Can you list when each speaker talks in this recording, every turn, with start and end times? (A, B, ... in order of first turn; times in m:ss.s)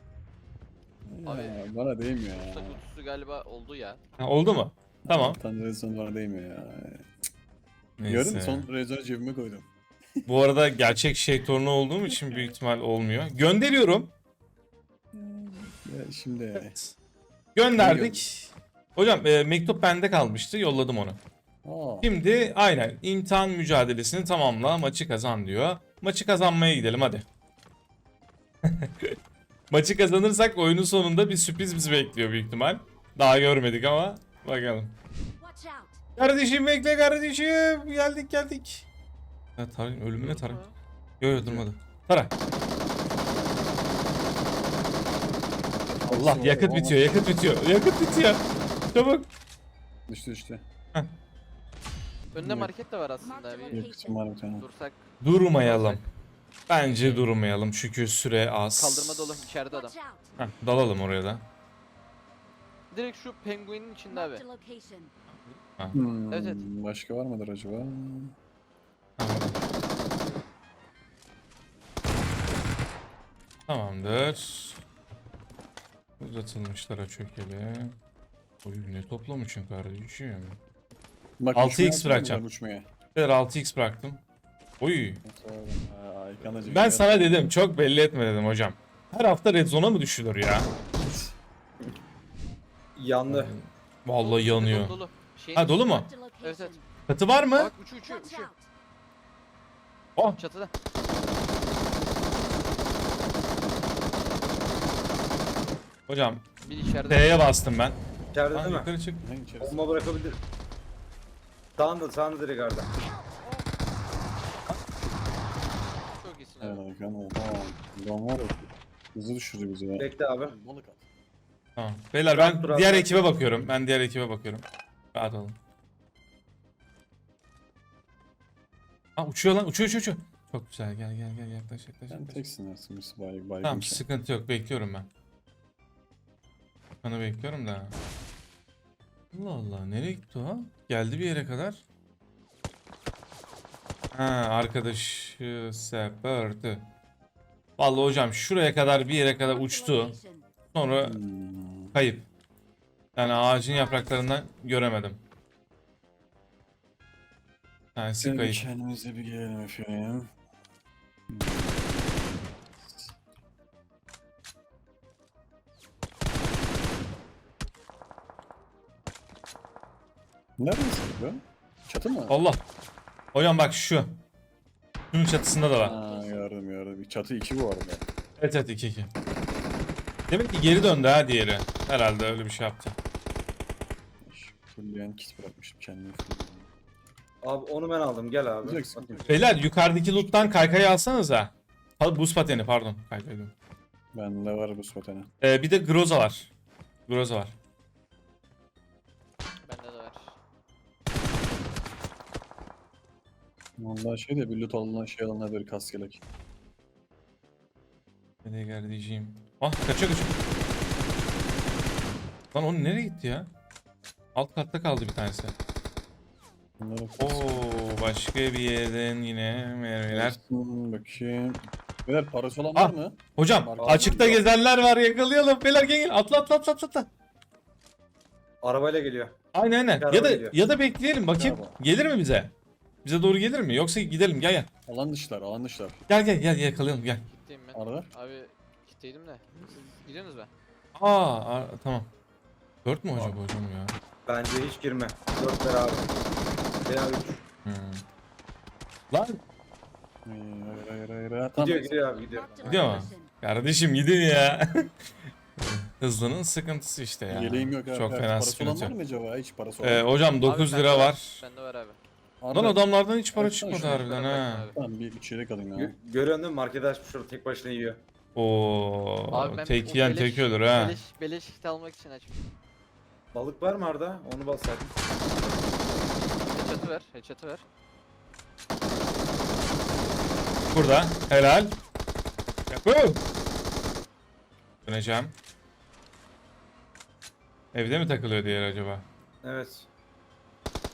0:01.1-0:02.8 A
0:01.2-0:01.7 B
0:02.2-0:04.0 B
0:04.2-0:05.4 C
0:05.1-0:07.1 A
0:08.0-0:08.7 C
0:08.1-0:09.7 A
0:10.3-0:14.1 C
0:12.1-0:12.4 A
0:15.1-0:16.7 A
0:16.6-0:17.0 C
0:17.6-0:21.2 C
0:17.8-0:18.2 A
0:21.6-0:22.1 A
0:22.0-0:27.2 C
0:28.6-0:29.2 C
0:29.7-0:35.0 C
0:35.4-0:36.0 D
0:36.2-0:38.9 C
0:39.6-0:40.6 C
0:40.2-0:40.7 B
0:41.2-0:42.3 C
0:41.3-0:41.7 A
0:45.8-0:47.3 A
0:46.1-0:49.3 C
0:50.1-0:50.6 A
0:52.3-0:53.8 B
0:52.4-0:52.7 A
0:53.6-0:54.1 D
0:53.7-0:54.7 A
0:54.6-0:55.0 B
0:55.2-0:56.0 C
0:55.6-0:56.1 B
0:56.7-0:59.5 C
0:56.8-0:57.3 B
0:58.8-1:00.0 B
1:00.0-1:00.2 D
1:00.4-1:01.4 C
1:02.9-1:04.5 B
1:04.2-1:05.1 D
1:05.3-1:06.0 C
1:05.9-1:08.3 A
1:06.3-1:06.6 B
1:09.2-1:09.6 C
1:13.7-1:14.8 C
1:16.2-1:18.0 C
1:18.6-1:20.6 C
1:21.4-1:22.9 A
1:21.5-1:22.4 C
1:23.1-1:24.2 C
1:24.8-1:25.2 C
1:25.2-1:27.5 A
1:26.7-1:30.7 C
1:31.0-1:31.4 A
1:33.0-1:33.5 E
1:33.3-1:35.0 C
1:34.2-1:36.8 B
1:35.6-1:36.1 C
1:36.2-1:36.8 D
1:37.1-1:37.7 C
1:37.6-1:38.6 B
1:38.2-1:38.6 D
1:40.4-1:40.7 B
1:46.1-1:46.5 C
1:46.6-1:47.5 B
1:47.1-1:48.0 C
1:48.3-1:48.9 E
1:48.5-1:49.2 C
1:49.2-1:50.0 A
1:49.6-1:50.4 E
1:51.8-1:52.9 E
1:56.2-1:56.8 B
1:56.6-2:01.1 A
2:00.0-2:00.5 E
2:01.8-2:05.6 C
2:02.3-2:03.2 E
2:09.2-2:12.4 C
2:12.1-2:14.0 A
2:13.6-2:15.1 C
2:17.0-2:18.0 C
2:19.3-2:21.8 C
2:24.1-2:26.9 C
2:27.8-2:30.2 C
2:29.6-2:30.4 D
2:30.7-2:31.2 C
2:31.0-2:32.0 A
2:31.9-2:32.3 C
2:33.2-2:35.2 C
2:38.0-2:38.6 C
2:38.2-2:40.3 A
2:41.3-2:42.2 A
2:42.8-2:43.1 A
2:50.6-2:52.4 A
2:52.3-2:52.6 C
2:53.3-2:54.2 C
2:55.1-2:56.0 C
2:55.8-2:58.0 A
2:55.8-2:56.4 D
2:58.4-2:59.1 C
3:00.3-3:03.0 C
3:04.2-3:06.7 A
3:07.4-3:09.5 E
3:08.6-3:10.7 A
3:09.3-3:13.5 C
3:14.1-3:15.3 A
3:15.4-3:16.5 C
3:17.1-3:17.6 C
3:19.6-3:20.4 B
3:23.8-3:26.2 A
3:28.4-3:30.4 C
3:32.5-3:33.5 C
3:34.4-3:35.6 C
3:36.8-3:37.5 A
3:37.2-3:40.4 C
3:40.1-3:44.4 A
3:42.8-3:47.1 C
3:43.8-3:44.4 E
3:48.6-3:49.4 E
3:49.5-3:52.5 C
3:50.0-3:50.6 E
3:51.4-3:51.8 A
3:53.0-3:54.7 C
3:54.9-3:56.0 A
3:56.1-3:57.2 C
3:57.2-4:00.5 B
3:57.7-3:58.1 A
4:01.0-4:02.1 C
4:02.8-4:04.0 C
4:04.3-4:06.1 E
4:06.9-4:07.4 E
4:07.6-4:08.0 C
4:09.1-4:09.4 C
4:10.3-4:12.1 A
4:11.6-4:13.0 E
4:12.2-4:13.3 D
4:12.7-4:14.9 C
4:15.6-4:19.0 C
4:17.3-4:20.1 A
4:19.8-4:21.4 C
4:20.4-4:22.0 B
4:22.4-4:22.8 A
4:22.5-4:24.7 C
4:23.3-4:24.1 A
4:23.8-4:24.8 B
4:24.7-4:26.0 A
4:25.8-4:28.0 E
4:28.4-4:31.0 C
4:29.3-4:32.4 B
4:33.3-4:34.9 E
4:36.5-4:37.6 B
4:40.7-4:41.7 C
4:42.7-4:43.2 C
4:44.8-4:45.3 C
4:47.7-4:49.0 C
4:49.4-4:49.9 E